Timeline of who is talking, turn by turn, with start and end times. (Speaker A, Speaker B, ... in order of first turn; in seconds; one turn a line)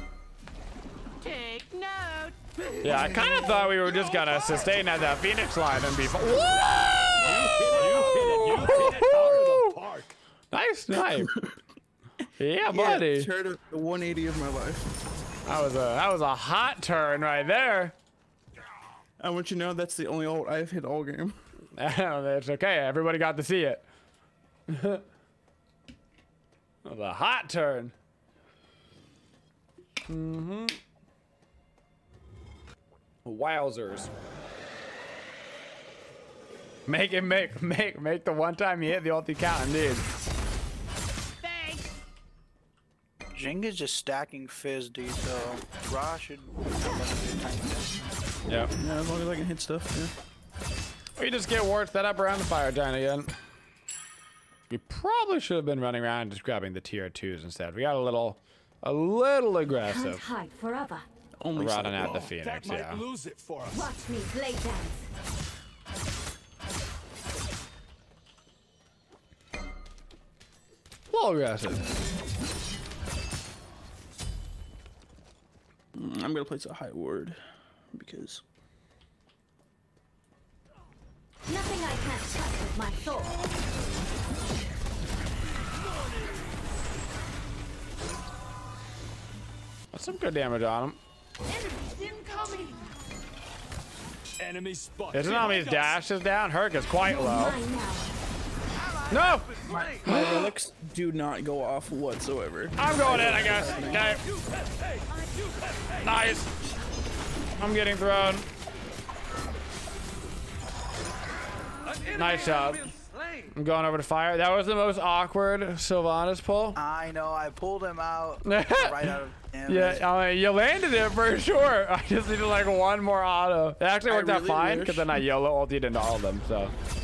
Speaker A: 1.2-2.9
Speaker B: 2.8-9.8
Speaker C: 7.2-10.2
Speaker B: 10.5-11.3
Speaker D: 11.2-11.5
Speaker B: 12.4-13.3
Speaker D: 12.7-14.9
Speaker B: 15.4-17.9
Speaker D: 19.2-21.4
Speaker B: 21.7-23.8
Speaker B: 24.7-25.0
Speaker B: 26.8-27.9
Speaker B: 30.0-30.8
Speaker B: 33.2-34.1
Speaker B: 36.9-40.0
Speaker A: 41.4-41.9
Speaker E: 43.3-48.1
Speaker B: 48.5-48.7
Speaker D: 48.7-50.1
Speaker B: 51.2-53.3
Speaker B: 54.7-60.2
Speaker F: 59.8-61.0
Speaker D: 61.4-62.2
Speaker B: 61.5-63.0
Speaker C: 62.0-63.9
Speaker F: 63.7-65.1
Speaker B: 71.1-71.9
Speaker D: 75.9-77.4
Speaker D: 77.9-78.4
Speaker F: 81.5-83.3
Speaker C: 85.9-86.5
Speaker B: 89.9-91.0
Speaker A: 91.5-92.9
Speaker C: 94.4-96.0
Speaker B: 95.1-97.6
Speaker F: 97.0-98.1
Speaker C: 98.8-100.1
Speaker B: 99.1-100.5
Speaker D: 100.0-104.1
Speaker B: 102.8-104.2
Speaker C: 103.0-106.2
Speaker B: 106.0-106.5
Speaker B: 107.6-108.5
Speaker C: 111.8-113.5
Speaker B: 112.1-112.9
Speaker B: 113.5-116.8
Speaker E: 116.8-120.0
Speaker B: 118.4-126.7
Speaker D: 124.1-125.1